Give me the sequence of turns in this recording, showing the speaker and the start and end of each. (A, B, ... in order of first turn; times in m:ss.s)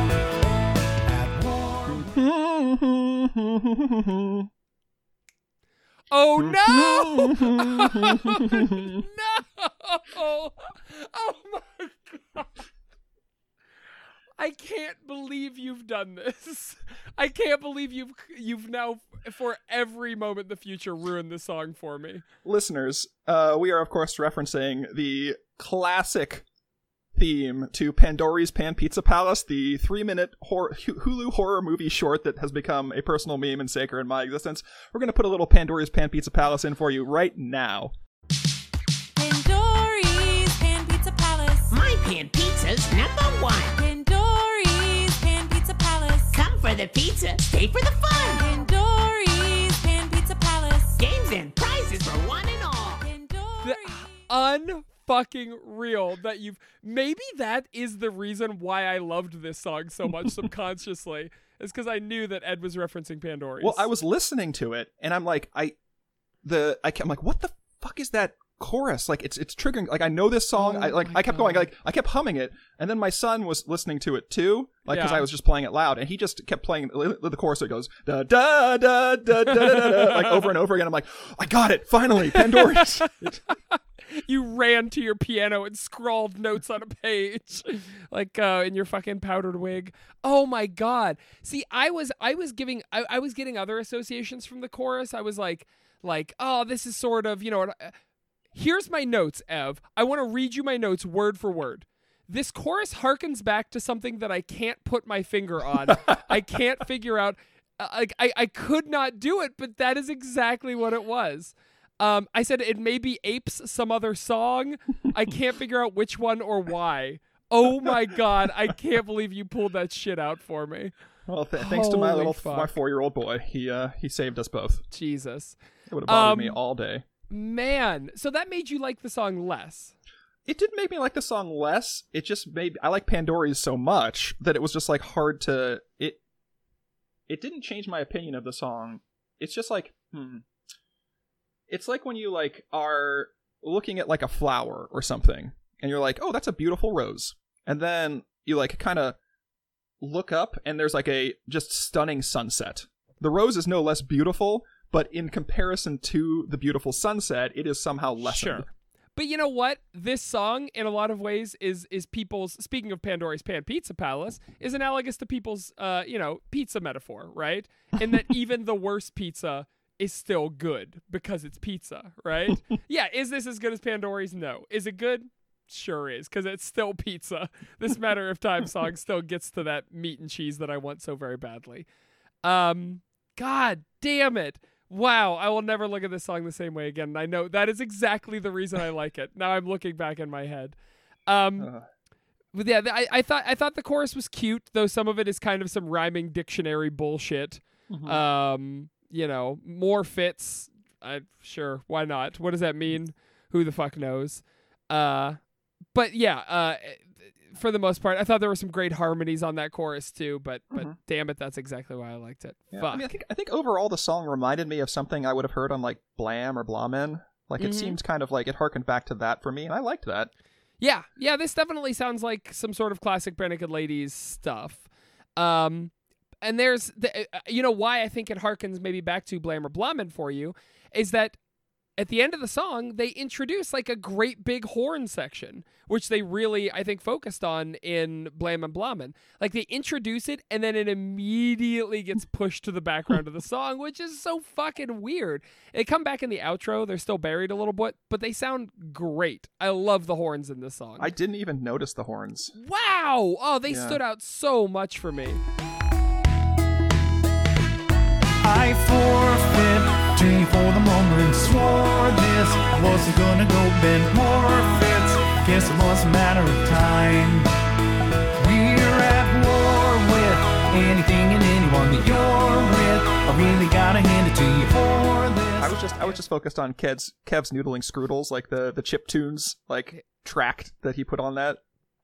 0:01.0-0:02.1 A
0:01.9-0:04.5 B
0:06.1-0:12.6 C
0:06.4-0:09.0 B
0:14.4-0:22.2 C
0:22.4-0:26.4 B
0:27.1-0:37.9 B
0:39.2-0:41.7 D
0:41.7-0:43.8 E
0:43.7-0:46.3 D
0:46.3-0:48.7 E
0:48.4-0:51.0 D
0:51.0-0:53.1 E
0:53.0-0:54.1 D
0:53.6-1:03.9 C
1:03.6-1:05.8 B
1:06.4-1:23.4 B
1:10.6-1:11.7 C
1:14.9-1:15.2 C
1:19.5-1:20.5 C
1:22.3-1:37.9 C
1:38.5-2:00.9 C
2:01.3-2:04.8 B
2:01.6-2:02.7 C
2:04.9-2:06.6 C
2:05.9-2:07.0 B
2:07.3-2:09.9 C
2:10.4-2:16.2 B
2:17.3-2:20.4 B
2:21.7-2:29.2 B
2:30.0-2:38.7 B
2:38.2-2:38.6 C
2:39.2-3:01.8 C
3:02.4-3:10.8 C
3:11.3-3:11.7 C
3:11.6-3:11.8 B
3:12.5-3:25.4 C
3:17.9-3:18.2 B
3:25.9-3:33.1 C
3:32.7-3:40.3 B
3:37.6-3:38.0 C
3:40.8-3:51.4 C
3:52.0-4:11.1 C
4:11.0-4:12.5 B
4:12.5-4:15.4 C
4:13.7-4:14.0 B
4:18.4-4:27.5 A
4:28.4-4:35.8 A
4:35.6-4:41.6 B